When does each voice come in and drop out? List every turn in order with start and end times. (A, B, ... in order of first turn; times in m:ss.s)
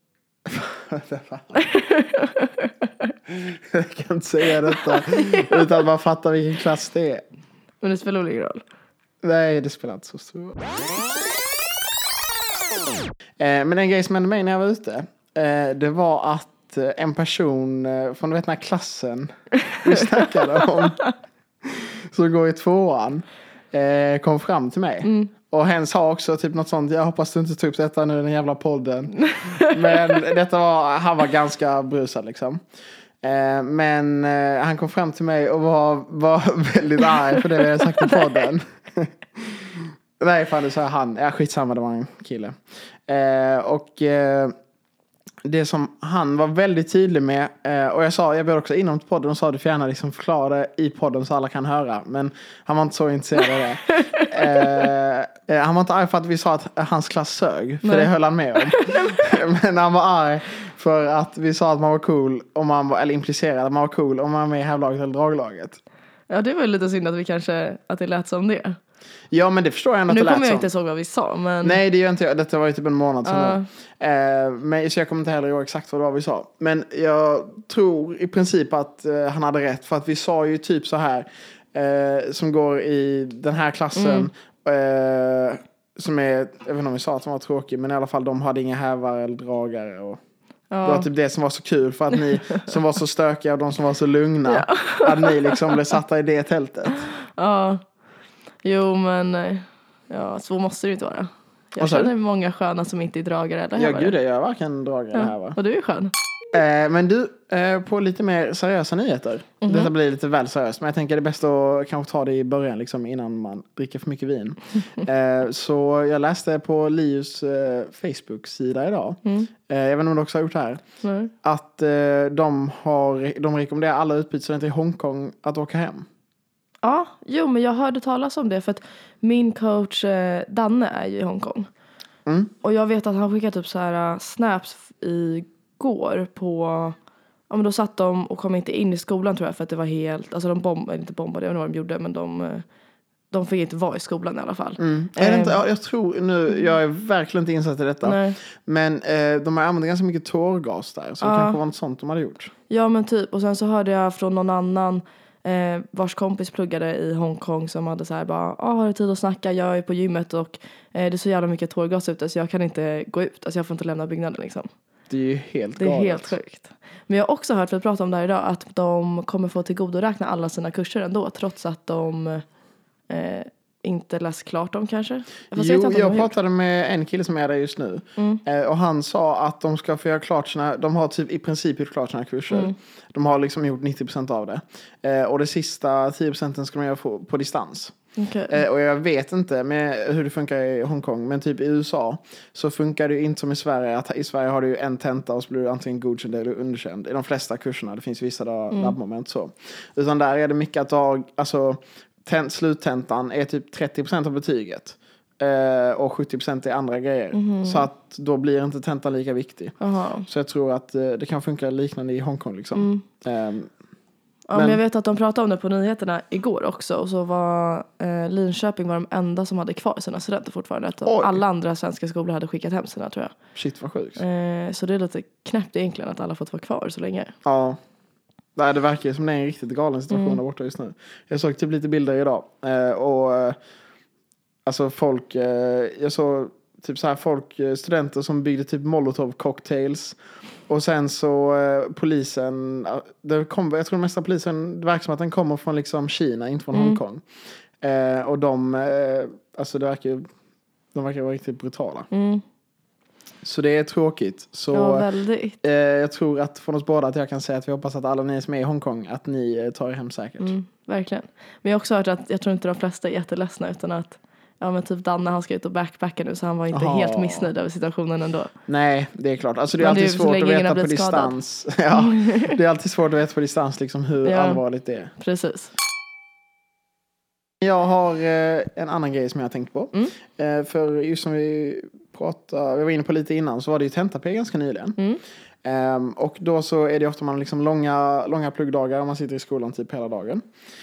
0:00.4-0:01.6 A
0:01.6-0:03.1 B
0:03.3-0:07.2 A
0:04.7-0:05.8 B
0:07.8-0:08.6 B
0:09.2-0:10.7 A
0:13.4-0:21.0 A
0:21.6-0:32.6 A
0:25.0-0:25.3 B
0:29.2-0:30.2 B
0:33.2-0:44.5 A
0:37.1-0:38.3 B
0:45.4-1:05.8 A
0:53.9-0:54.6 B
0:57.8-0:59.3 B
1:06.3-1:08.8 B
1:09.3-1:10.7 A
1:10.1-1:11.8 B
1:11.6-1:30.2 A
1:13.2-1:13.7 B
1:24.0-1:24.3 B
1:30.7-1:31.1 B
1:30.8-1:37.0 A
1:34.5-1:35.9 B
1:37.0-1:37.8 B
1:38.6-1:44.1 B
1:41.8-1:42.1 A
1:43.8-1:45.6 A
1:45.1-1:46.1 B
1:46.5-2:00.8 A
1:49.6-1:49.9 B
1:59.2-1:59.5 B
2:01.0-2:01.3 B
2:01.4-2:06.1 A
2:06.8-2:11.7 B
2:12.3-2:12.5 A
2:12.6-2:17.0 B
2:17.5-2:22.6 B
2:23.3-2:25.6 B
2:24.8-2:32.5 A
2:28.0-2:28.4 B
2:31.2-2:31.6 B
2:32.7-2:44.7 B
2:45.1-2:46.4 A
2:45.8-2:52.4 B
2:53.1-2:56.3 B
2:55.5-3:08.0 A
2:58.2-2:58.4 B
3:08.2-3:08.6 B
3:08.5-3:29.8 A
3:27.3-3:27.9 B
3:29.8-3:30.3 B
3:30.3-3:33.7 A
3:32.8-3:33.0 B
3:34.5-3:43.4 B
3:34.5-3:34.8 A
3:41.1-3:41.4 A
3:43.6-3:44.2 A
3:44.2-3:47.3 B
3:47.4-3:47.8 A
3:48.6-3:53.6 A
3:50.1-3:50.4 B
3:54.7-4:07.2 A
4:06.7-4:07.0 B
4:07.8-4:10.2 A
4:10.9-4:12.1 A
4:12.1-4:12.4 B
4:13.4-4:15.1 A
4:14.7-4:15.6 B
4:15.6-4:20.5 A
4:20.4-4:28.5 B
4:26.7-4:27.5 A
4:28.7-4:35.1 A
4:29.8-4:31.4 B
4:31.9-4:32.6 B
4:34.2-4:34.6 B
4:35.2-4:35.7 B
4:37.6-4:45.0 A
4:45.6-4:50.4 A